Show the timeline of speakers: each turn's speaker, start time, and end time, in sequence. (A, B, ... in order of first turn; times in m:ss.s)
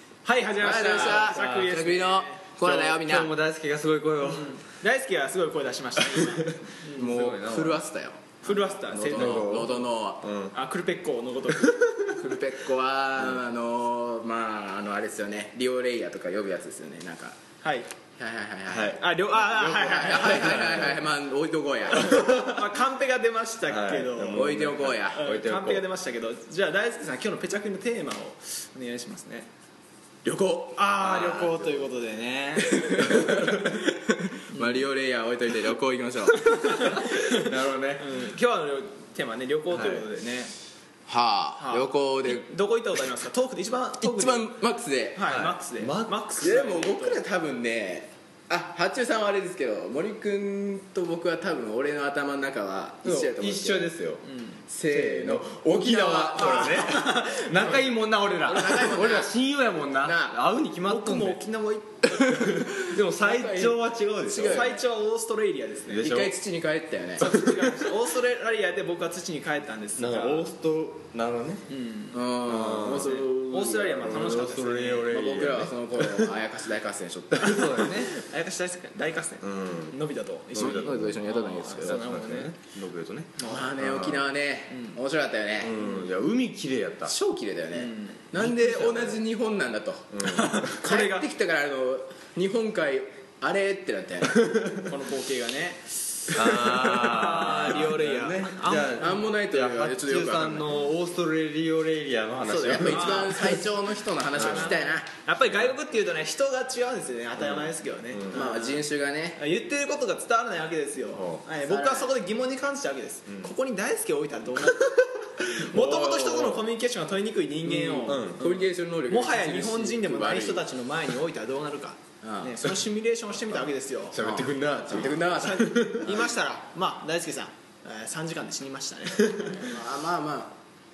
0:00.2-0:02.4 A
0:00.6-0:03.3 B
0:00.8-0:01.7 C
0:02.6-0:04.6 C
0:04.2-0:07.1 A
0:06.2-0:07.8 C
0:07.0-0:10.2 B
0:08.4-0:09.7 A
0:09.1-0:10.6 C
0:10.5-0:12.0 A
0:12.2-0:17.4 B
0:17.6-0:17.9 A
0:18.2-0:22.2 B
0:18.7-0:19.0 C
0:19.0-0:20.9 A
0:20.2-0:21.0 C
0:21.9-0:22.6 C
0:22.3-0:24.6 A
0:23.7-0:25.8 C
0:24.3-0:25.2 B
0:25.1-0:29.5 A
0:30.2-0:30.8 B
0:30.8-0:33.1 A
0:31.0-0:31.7 C
0:32.7-0:36.8 B
0:34.5-0:34.8 A
0:36.9-0:40.5 A
0:37.3-0:38.1 C
0:39.7-0:40.1 C
0:41.1-0:42.5 B
0:41.6-0:44.5 A
0:44.0-0:45.2 B
0:45.1-0:47.2 A
0:45.3-0:46.2 C
0:46.4-0:54.0 B
0:53.0-0:54.2 C
0:54.2-0:54.6 A
0:54.7-0:56.8 B
0:54.9-1:01.4 C
0:56.3-0:57.8 A
0:58.4-0:59.3 B
1:00.0-1:00.4 B
1:00.8-1:02.5 A
1:02.3-1:04.7 C
1:03.1-1:04.8 B
1:04.4-1:06.1 A
1:05.9-1:06.3 C
1:06.0-1:07.2 B
1:07.2-1:10.5 A
1:07.2-1:07.8 C
1:10.0-1:11.6 C
1:11.7-1:12.2 A
1:12.1-1:14.4 B
1:12.4-1:13.2 C
1:12.9-1:15.2 A
1:14.0-1:16.4 C
1:15.1-1:17.8 B
1:17.4-1:18.1 C
1:17.6-1:22.6 A
1:19.4-1:20.0 C
1:20.5-1:24.2 C
1:20.6-1:22.1 B
1:23.4-1:23.8 A
1:23.4-1:25.8 B
1:24.7-1:25.0 A
1:25.6-1:27.1 C
1:25.8-1:26.1 A
1:27.0-1:30.1 B
1:27.7-1:29.2 A
1:28.4-1:29.2 C
1:30.1-1:30.7 C
1:30.2-1:31.3 A
1:30.8-1:34.5 B
1:34.4-1:34.8 C
1:34.9-1:36.2 A
1:36.3-1:43.5 C
1:37.0-1:39.1 A
1:39.0-1:40.8 B
1:42.4-1:45.1 B
1:42.6-1:48.5 A
1:44.4-1:44.6 C
1:47.4-1:48.8 C
1:48.3-1:49.4 B
1:49.4-2:04.2 A
1:51.1-1:51.4 C
1:51.6-1:52.1 B
1:54.9-1:56.6 C
1:57.7-2:00.6 B
1:58.0-1:58.4 C
2:02.2-2:02.6 B
2:04.1-2:06.2 C
2:04.2-2:06.1 B
2:05.0-2:09.7 A
2:09.6-2:10.6 B